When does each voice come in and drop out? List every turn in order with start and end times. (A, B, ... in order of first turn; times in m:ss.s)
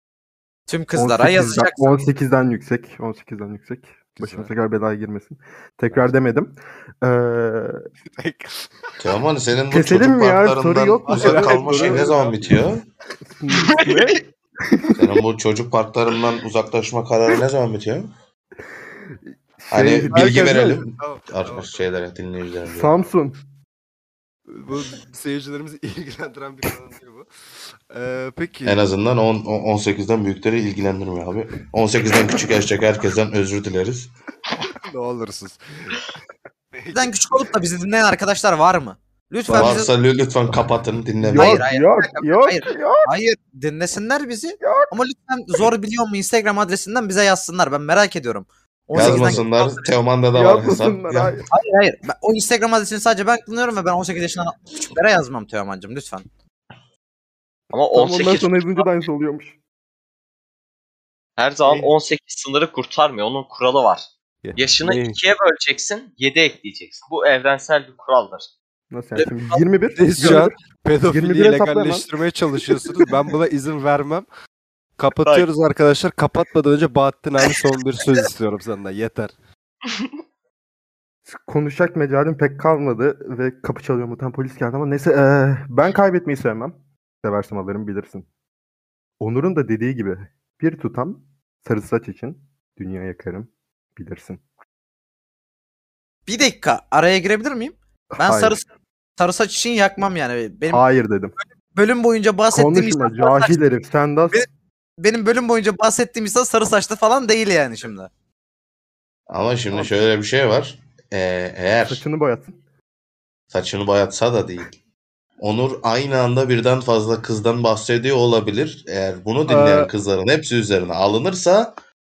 0:00.7-0:02.0 A
0:01.0-0:07.8 B
0:04.2-0:04.5 C
0:05.9-0:06.2 C
0:08.1-0:09.0 C
0:09.0-0:12.8 D
0:09.7-0:12.3 B
0:11.1-0:12.6 C
0:13.3-0:15.2 B
0:14.9-0:18.1 D
0:18.6-0:20.8 B
0:19.7-0:23.0 D
0:20.1-0:21.9 C
0:22.7-0:23.4 B
0:24.5-0:27.3 C
0:27.9-0:28.8 C
0:28.6-0:34.1 D
0:34.9-0:36.0 C
0:36.7-0:37.5 C
0:36.9-0:39.9 A
0:39.4-0:39.9 B
0:39.5-0:41.6 D
0:41.2-0:43.1 B
0:41.4-0:49.9 A
0:44.6-0:45.0 B
0:48.9-0:49.4 B
0:48.9-0:51.4 D
0:50.3-0:51.5 B
0:51.5-0:56.3 A
0:57.7-0:59.0 E
0:57.9-0:59.6 B
1:01.4-1:08.5 E
1:04.4-1:05.2 C
1:08.9-1:10.5 B
1:09.2-1:09.6 E
1:09.9-1:14.3 C
1:11.1-1:13.0 B
1:15.0-1:19.3 C
1:21.2-1:28.3 B
1:29.2-1:34.4 B
1:36.3-1:38.6 A
1:38.1-1:38.6 B
1:39.2-1:40.8 A
1:40.7-1:41.4 B
1:41.6-1:43.6 A
1:42.5-1:44.4 B
1:45.0-1:48.1 A
1:49.3-1:52.0 D
1:51.8-1:52.6 B
1:53.5-1:54.8 D
1:55.4-2:01.8 D
1:59.5-1:59.9 C